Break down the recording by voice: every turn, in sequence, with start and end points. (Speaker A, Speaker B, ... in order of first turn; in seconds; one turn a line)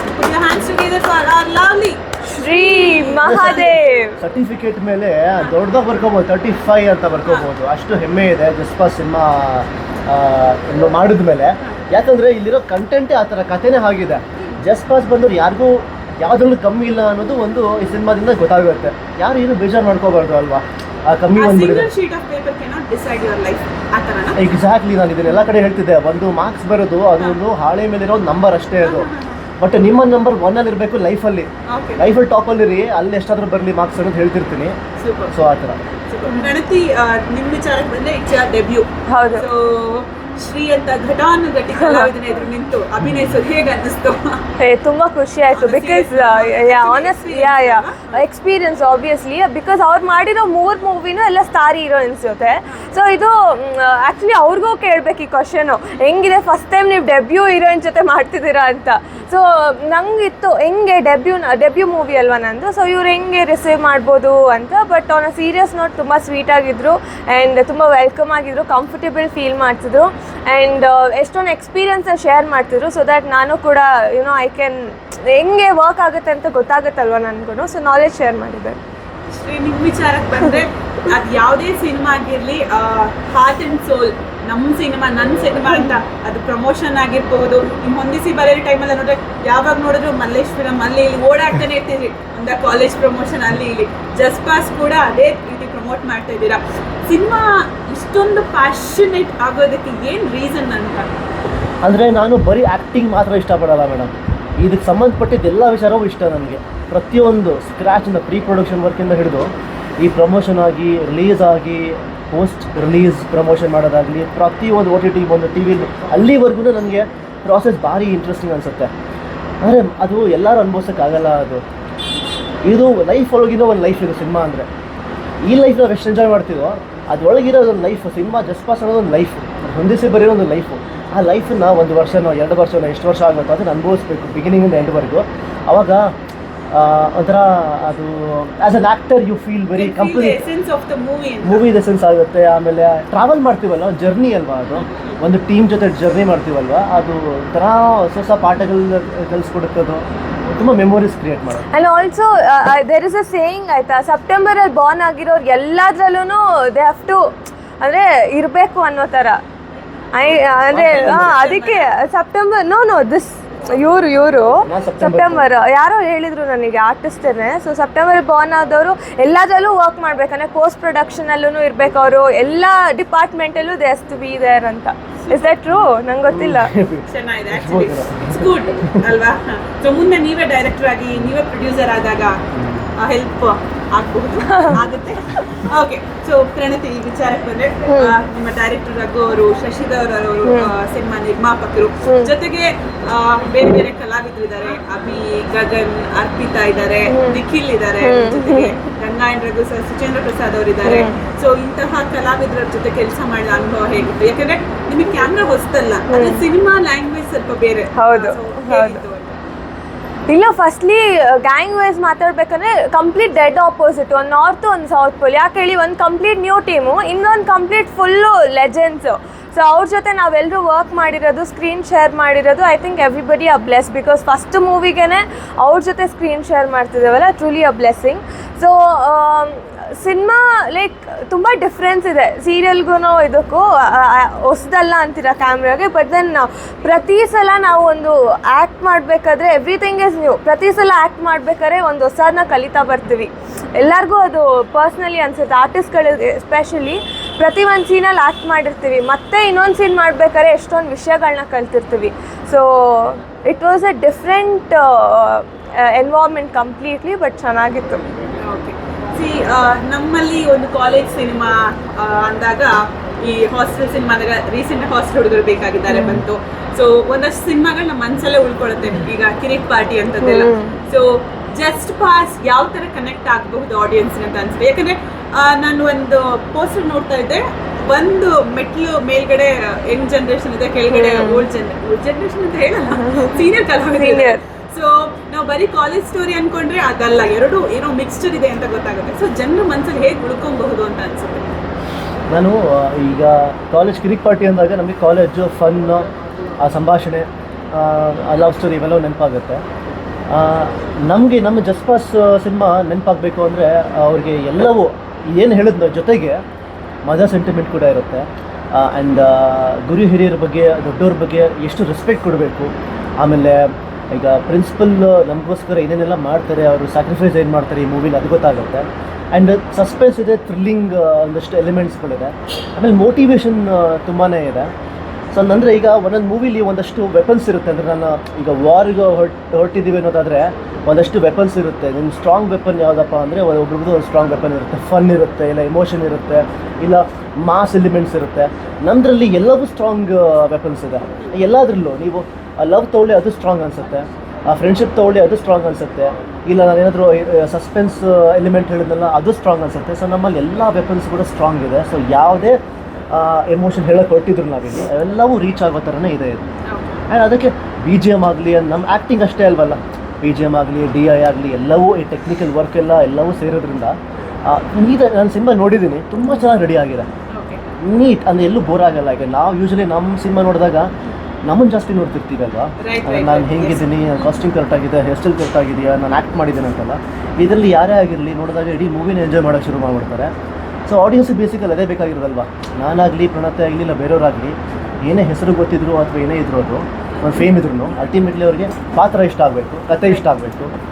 Speaker A: 0.1-4.1
Speaker B: 2.3-4.2
Speaker C: 3.2-21.9
Speaker A: 21.3-24.5
Speaker C: 24.4-29.1
Speaker A: 28.8-29.4
Speaker C: 29.6-34.8
Speaker A: 31.7-32.0
Speaker A: 35.0-35.3
Speaker C: 35.3-35.8
Speaker A: 36.1-44.4
Speaker B: 36.3-36.5
Speaker B: 39.1-39.5
Speaker B: 41.7-42.1
Speaker C: 43.0-43.4
Speaker B: 44.6-78.8
Speaker A: 45.5-48.2
Speaker A: 79.4-101.1
Speaker C: 101.8-118.9
Speaker C: 119.6-121.6
Speaker C: 122.7-124.7
Speaker C: 125.5-136.2
Speaker C: 136.7-140.5
Speaker A: 139.8-141.7
Speaker C: 141.4-151.7
Speaker A: 144.8-145.2
Speaker B: 151.7-159.4
Speaker B: 160.1-176.7
Speaker C: 160.7-161.4
Speaker A: 160.8-161.9
Speaker C: 164.6-165.5
Speaker A: 175.2-175.6
Speaker C: 176.3-179.1
Speaker A: 177.1-182.4
Speaker C: 182.5-182.9
Speaker A: 183.0-209.4
Speaker B: 187.9-188.2
Speaker B: 192.1-192.3
Speaker B: 197.1-197.4
Speaker B: 198.0-198.8
Speaker B: 200.8-201.2
Speaker B: 206.1-206.4
Speaker B: 208.0-209.0
Speaker B: 210.3-258.0
Speaker A: 258.4-291.5
Speaker B: 265.9-266.2
Speaker B: 270.2-270.8
Speaker B: 280.9-281.5
Speaker B: 282.9-284.4
Speaker C: 292.3-299.6
Speaker C: 300.3-306.4
Speaker C: 307.1-324.7
Speaker C: 325.3-356.4
Speaker A: 356.7-357.0
Speaker C: 357.1-367.1
Speaker A: 367.3-367.7
Speaker C: 367.8-370.9
Speaker C: 371.4-380.3
Speaker A: 372.8-373.9
Speaker C: 380.9-390.7
Speaker A: 387.2-387.5